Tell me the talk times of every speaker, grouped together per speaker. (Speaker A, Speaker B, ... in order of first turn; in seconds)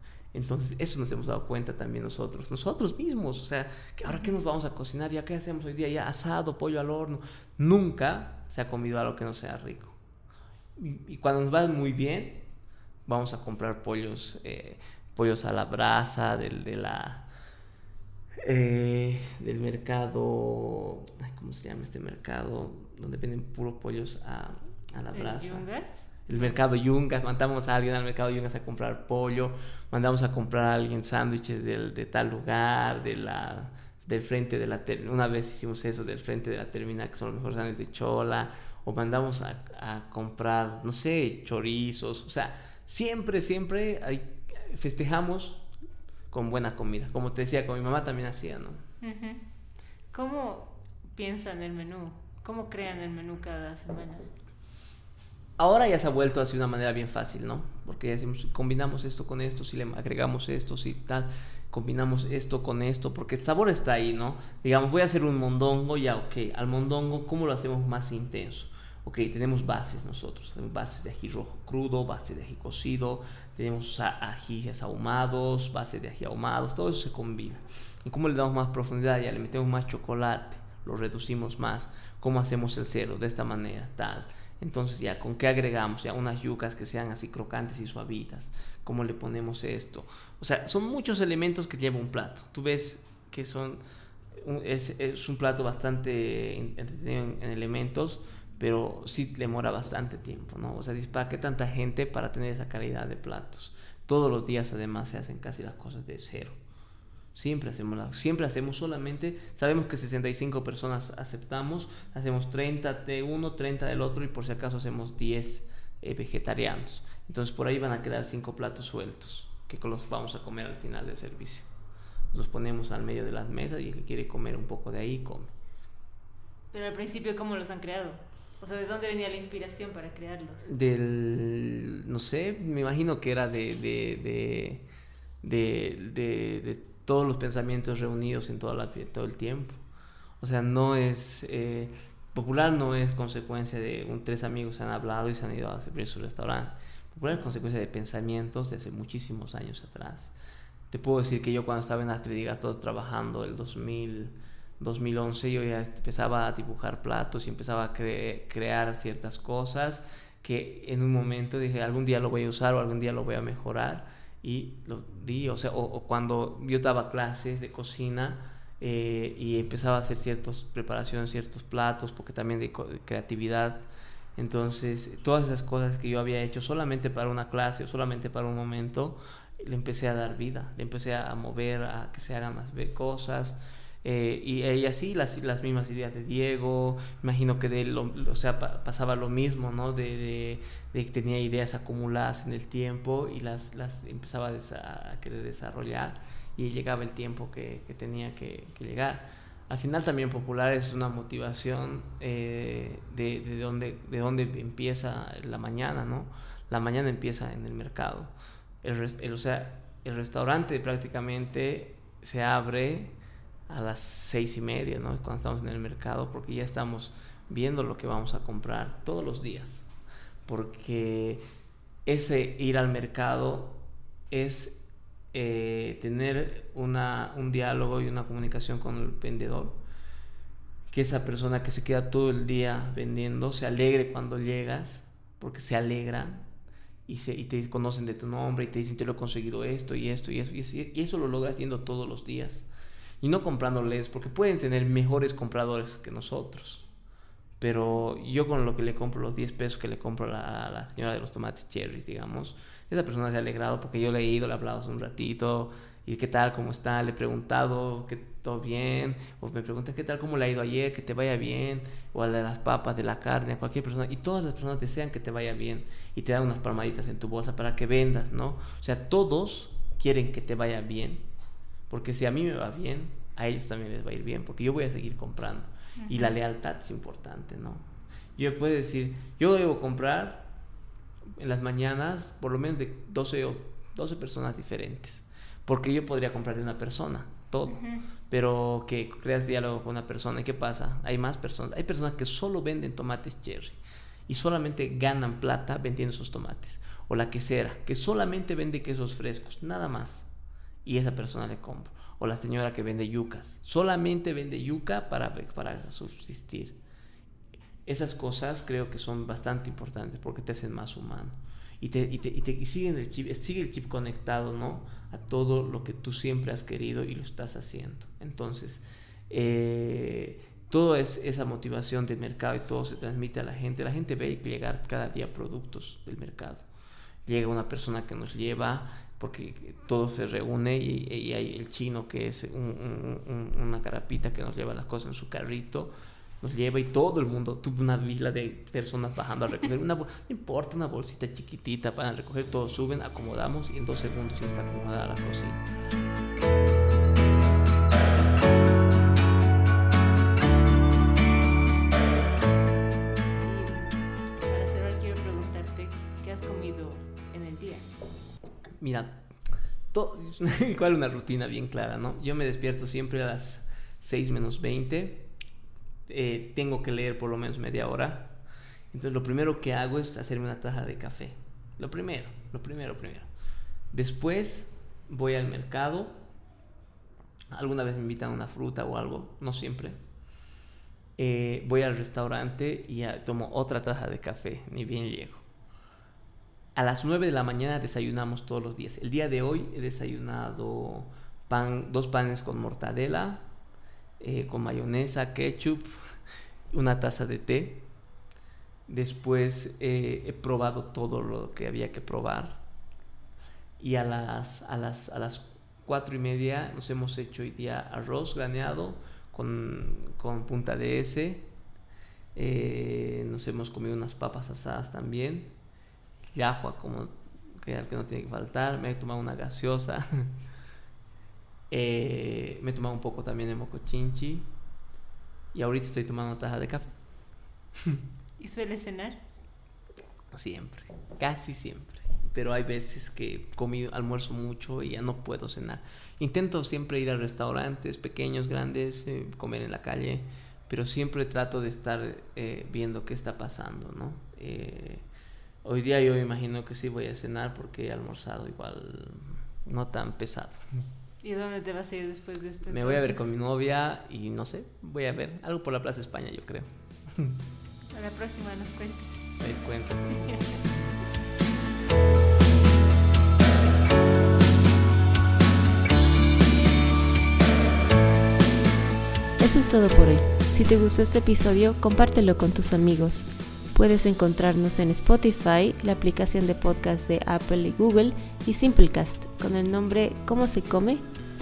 Speaker A: 0.3-9.9, 10.8-12.5, 13.1-17.3, 18.4-25.6, 26.2-45.7, 46.3-48.8, 55.6-93.8, 94.4-106.6, 107.3-121.7, 122.3-125.5, 130.7-134.8, 135.4-139.8, 140.4-150.3, 150.9-208.3, 208.8-213.1, 213.7-219.9, 220.4-221.4, 222.1-229.8, 230.9-236.5, 237.1-242.7, 243.2-246.8, 247.6-271.3, 271.9-277.8, 278.4-280.5, 281.4-300.3, 300.8-306.8, 307.8-326.6, 327.2-345.6, 358.8-359.2, 359.9-365.3, 366.1-368.4, 368.9-373.3, 373.9-376.2, 377.5-380.0, 381.2-385.4, 386.7-393.4, 394.2-395.9, 396.7-397.9, 398.9-402.6, 403.8-411.5, 412.3-415.5, 416.3-420.3, 421.7-424.5, 425.5-426.9, 430.3-445.0, 445.6-450.6, 452.6-457.4, 459.4-460.8
Speaker B: 4.1-4.3, 25.1-26.6, 49.0-49.4, 50.1-54.3, 126.7-130.7, 276.0-276.3, 287.7-288.0, 353.4-357.9, 428.4-429.2, 451.2-453.3, 457.9-459.3, 460.1-460.6
Speaker C: 469.4-481.0